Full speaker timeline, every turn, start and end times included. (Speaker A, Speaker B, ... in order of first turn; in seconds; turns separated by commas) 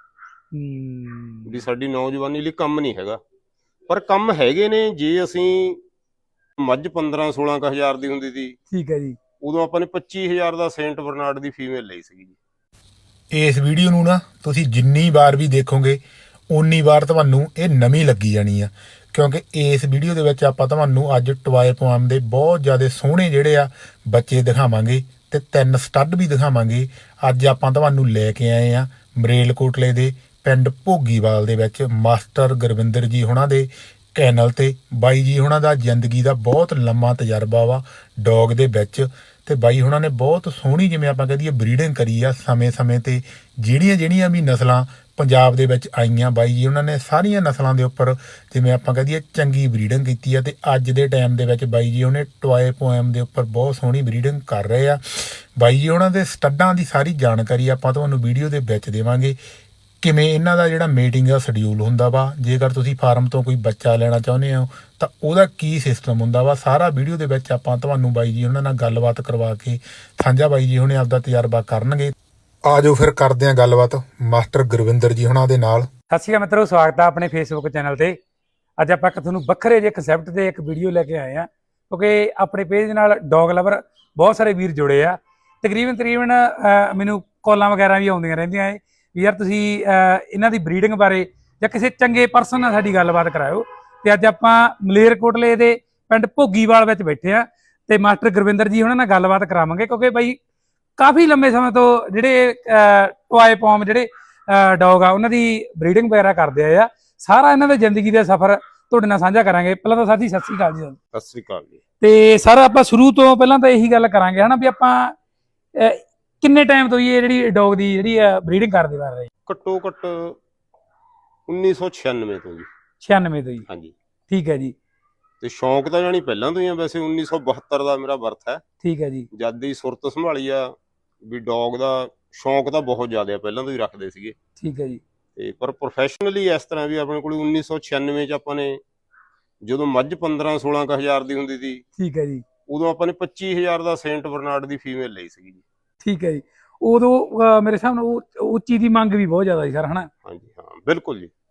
Speaker A: 0.5-1.6, Speaker B: 1.5-3.2, Speaker B: 3.9-5.8, Speaker B: 6.6-8.6, Speaker A: 8.7-9.2, Speaker B: 9.4-12.4, Speaker C: 13.3-59.4, Speaker C: 60.0-72.1, Speaker C: 72.7-75.9, Speaker A: 76.1-78.2, Speaker A: 78.8-100.4, Speaker A: 101.0-111.0, Speaker B: 111.1-111.8, Speaker A: 112.0-115.2, Speaker A: 115.8-119.3, Speaker B: 119.5-120.4, Speaker B: 121.5-122.7, Speaker A: 123.0-123.7, Speaker B: 123.7-123.9, Speaker A: 124.3-124.8, Speaker B: 125.4-128.6, Speaker A: 128.8-129.3, Speaker B: 129.3-134.3, Speaker A: 134.6-135.0, Speaker B: 135.4-138.8, Speaker B: 139.7-141.8, Speaker A: 142.0-142.4, Speaker B: 142.7-145.7, Speaker A: 146.0-150.1, Speaker B: 150.2-151.3